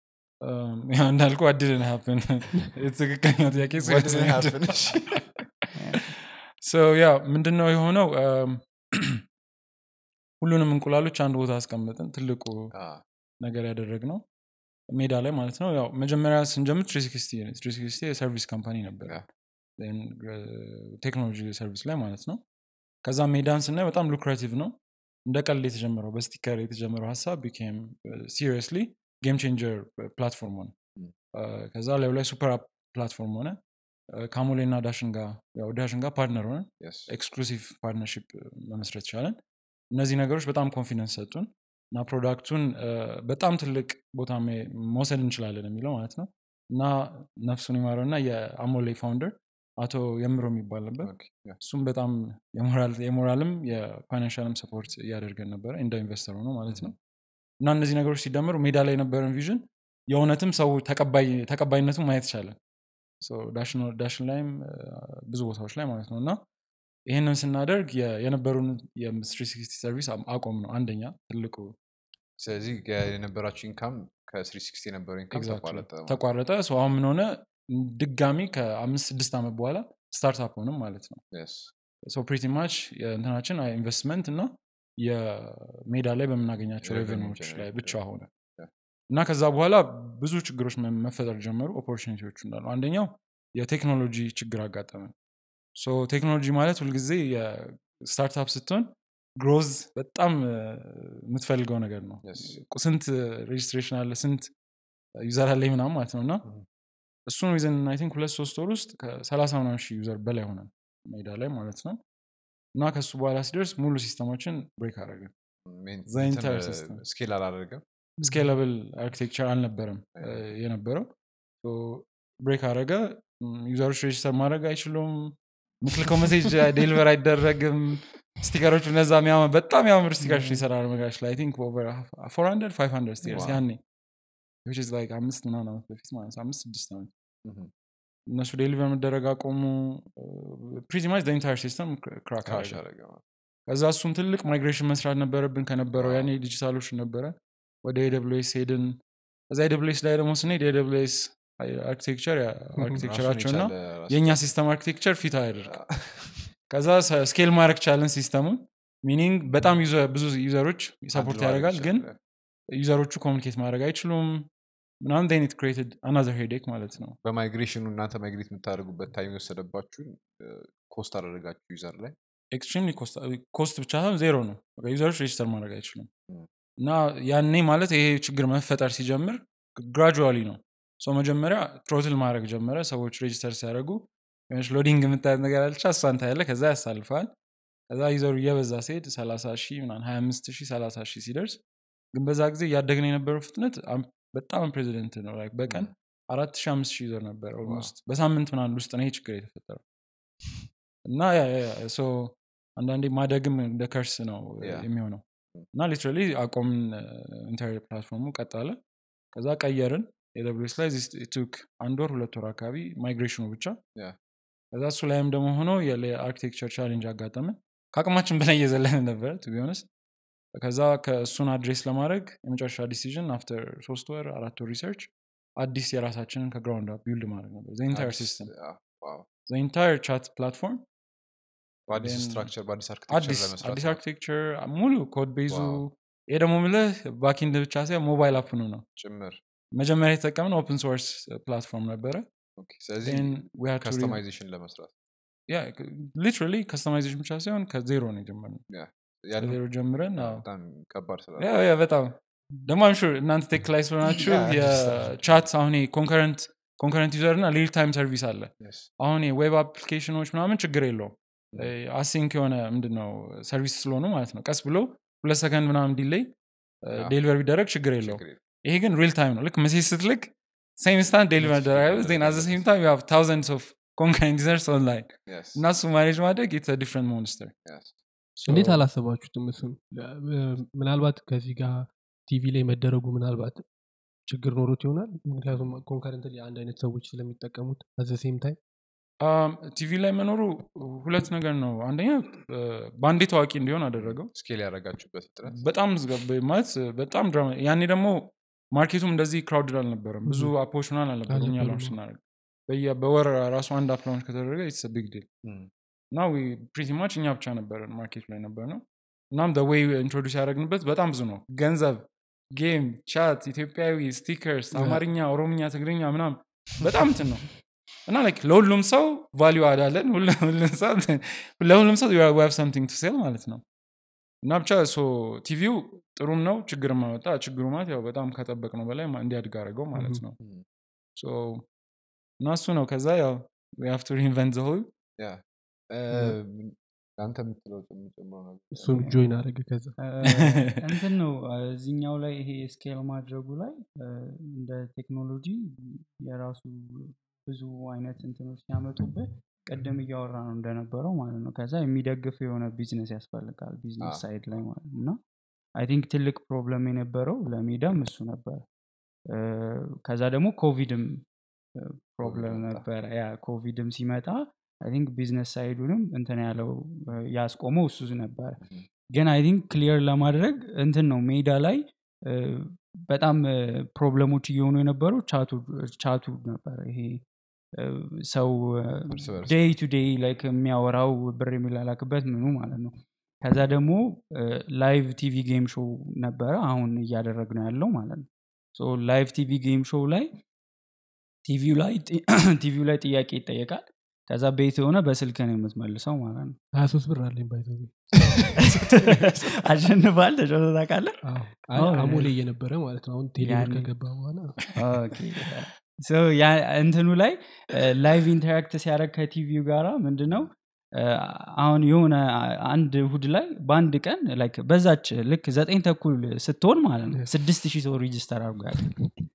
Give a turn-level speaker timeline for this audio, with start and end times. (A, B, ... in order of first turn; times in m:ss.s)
0:00.4-0:05.2 A
0:03.8-0:05.2 B
0:05.7-0:06.0 C
0:06.6-0:09.2 A
0:10.4-0:12.7 A
0:12.7-0:13.0 B
0:13.4-0:14.2 A
0:14.9-0:19.2 A
0:19.8-0:22.4 A
0:23.0-0:30.8 A
0:31.3-0:33.6 A
0:34.1-0:39.4 A
0:36.8-0:37.1 B
0:39.9-0:56.9 A
0:51.0-0:51.6 B
0:57.6-1:02.6 A
1:03.2-1:06.4 A
1:07.0-1:11.8 A
1:12.4-1:16.2 B
1:15.3-1:21.2 A
1:21.3-1:21.7 B
1:22.0-1:28.3 A
1:26.8-1:28.0 B
1:29.1-1:35.1 A
1:35.8-1:44.5 A
1:42.2-1:42.6 B
1:45.2-1:46.4 A
1:47.3-1:52.0 A
1:52.7-1:55.3 A
1:55.6-1:57.8 B
1:56.1-1:57.0 A
1:58.2-1:58.5 D
1:58.2-2:01.0 A
2:00.2-2:00.5 B
2:01.6-2:13.8 A
2:13.3-2:13.6 B
2:14.6-2:17.1 A
2:17.4-2:17.7 B
2:18.3-2:22.8 A
2:22.4-2:23.2 B
2:23.7-2:36.0 A
2:25.9-2:26.3 B
2:32.8-2:33.0 D
2:32.9-2:34.5 B
2:35.6-2:36.5 B
2:36.7-2:42.1 A
2:41.1-2:42.1 B
2:42.7-2:44.5 A
2:45.0-2:47.2 A
2:47.2-2:52.1 B
2:52.5-2:56.1 A
2:56.8-3:07.3 A
3:07.9-3:11.6 A
3:12.1-3:19.8 A
3:17.6-3:17.9 B
3:21.0-3:28.8 A
3:24.6-3:24.9 B
3:29.3-3:33.8 A
3:34.7-3:39.8 A
3:40.5-3:48.5 A
3:47.9-3:49.3 B
3:49.5-3:50.8 A
3:51.9-3:54.0 B
3:51.9-3:52.5 A
3:53.1-3:58.8 A
3:55.5-3:55.8 B
3:59.0-3:59.4 B
3:59.7-4:02.2 A
4:02.6-4:04.9 B
4:03.0-4:04.2 A
4:05.5-4:08.6 A
4:08.7-4:09.6 B
4:09.4-4:10.4 A
4:10.1-4:11.5 B
4:11.4-4:37.5 A
4:14.1-4:15.4 B
4:18.6-4:18.9 B
4:28.0-4:28.4 B
4:31.4-4:32.6 B
4:35.3-4:35.6 B
4:37.6-4:37.9 B
4:38.4-4:38.8 A
4:38.5-4:43.6 D
4:44.2-4:48.6 D
4:45.5-4:45.8 B
4:49.2-4:54.3 A
4:54.0-4:55.6 B
4:55.5-5:05.3 A
5:00.2-5:00.5 D
5:01.3-5:01.9 D
5:05.4-5:05.7 B
5:06.1-5:23.6 A
5:14.7-5:15.0 D
5:24.4-5:30.4 A
5:29.9-5:30.2 D
5:31.2-5:31.6 A
5:32.4-5:34.9 A
5:35.2-5:39.0 B
5:38.7-5:40.0 D
5:38.9-5:39.2 C
5:40.0-5:55.2 C
5:40.2-5:40.8 A
5:55.8-5:58.6 C
5:59.3-6:08.6 C
6:02.2-6:02.8 B
6:09.1-6:30.3 C
6:19.1-6:19.8 B
6:31.4-6:36.6 C
6:36.7-6:38.9 D
6:38.2-6:38.6 B
6:38.6-6:42.3 C
6:41.2-6:44.7 D
6:43.4-6:43.9 C
6:44.7-6:59.2 C